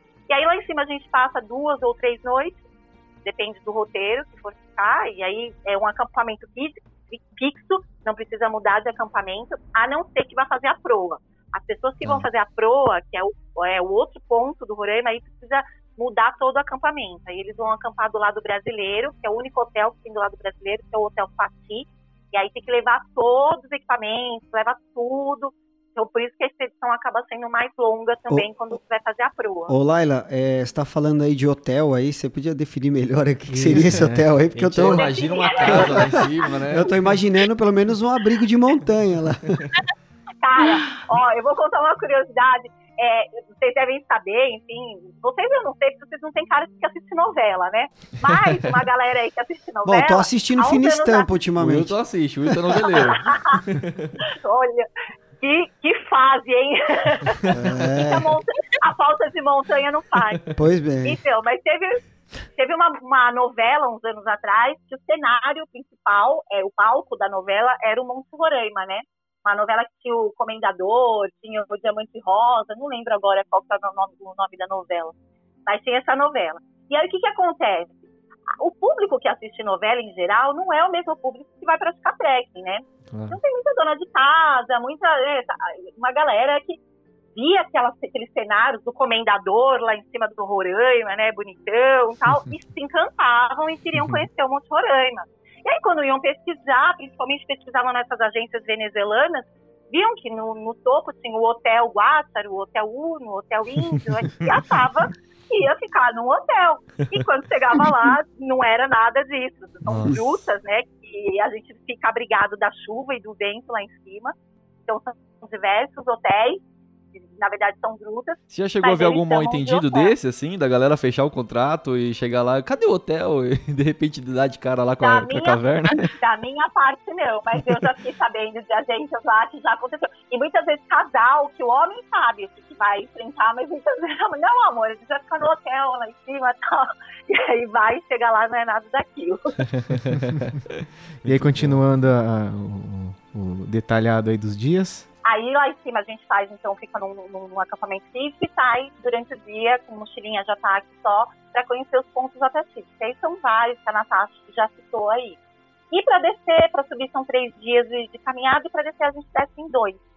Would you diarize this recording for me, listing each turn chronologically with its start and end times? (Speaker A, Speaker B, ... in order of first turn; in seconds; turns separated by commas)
Speaker A: 0.3-2.6, Speaker A: 3.2-29.7, Speaker B: 29.7-39.7, Speaker C: 33.5-34.3, Speaker D: 34.5-36.9, Speaker A: 34.9-36.1, Speaker A: 40.4-51.3, Speaker B: 49.9-51.9, Speaker D: 51.6-54.2, Speaker A: 52.8-53.6, Speaker A: 54.2-54.9, Speaker A: 55.4-57.5, Speaker B: 57.5-58.4, Speaker A: 58.0-62.0, Speaker B: 60.6-61.2, Speaker A: 62.6-75.1, Speaker A: 75.7-78.0, Speaker A: 78.6-86.8, Speaker D: 83.1-83.4, Speaker A: 87.3-114.3, Speaker D: 109.9-110.2, Speaker A: 114.9-116.6, Speaker A: 117.3-120.1, Speaker D: 118.5-126.1, Speaker A: 125.0-139.6, Speaker D: 139.6-141.8, Speaker C: 141.2-145.1, Speaker A: 145.2-155.4, Speaker A: 155.9-160.0